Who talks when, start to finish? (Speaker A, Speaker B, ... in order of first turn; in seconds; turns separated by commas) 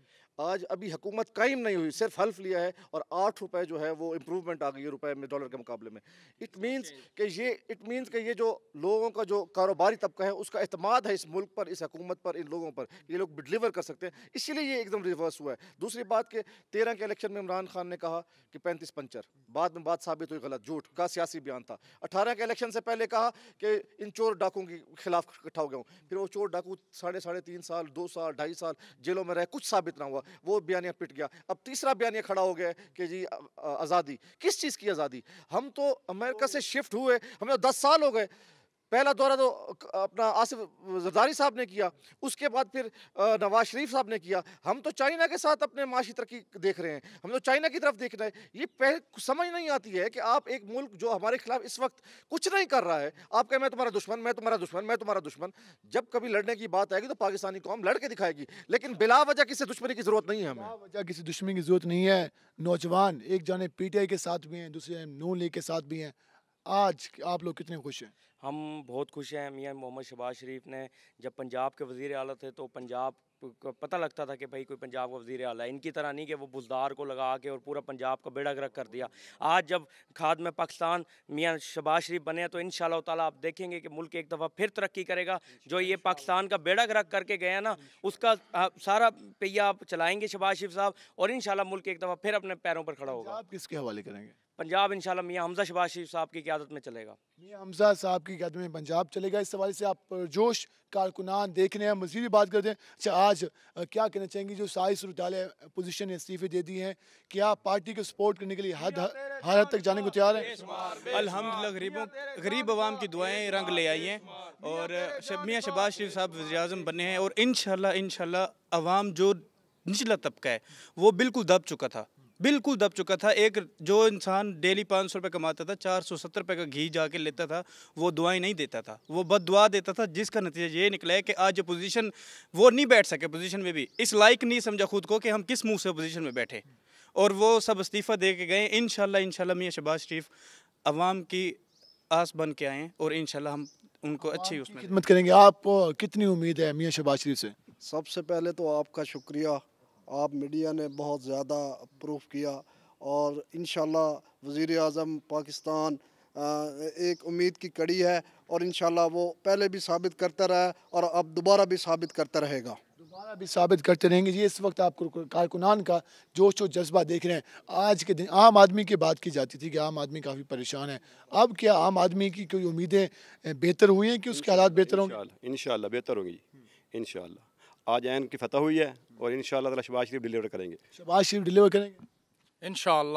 Speaker A: 0.4-38.3, Speaker A: 38.9-60.7, Speaker B: 60.5-66.1, Speaker B: 66.7-68.1, Speaker C: 68.4-93.4, Speaker B: 93.0-94.3, Speaker C: 94.6-97.2, Speaker B: 97.4-110.6, Speaker D: 111.0-136.6, Speaker D: 137.1-140.3, Speaker D: 140.8-141.6, Speaker D: 142.1-144.9, Speaker B: 144.2-147.6, Speaker E: 147.8-162.8, Speaker B: 163.0-175.2, Speaker F: 174.3-180.8, Speaker B: 180.9-182.0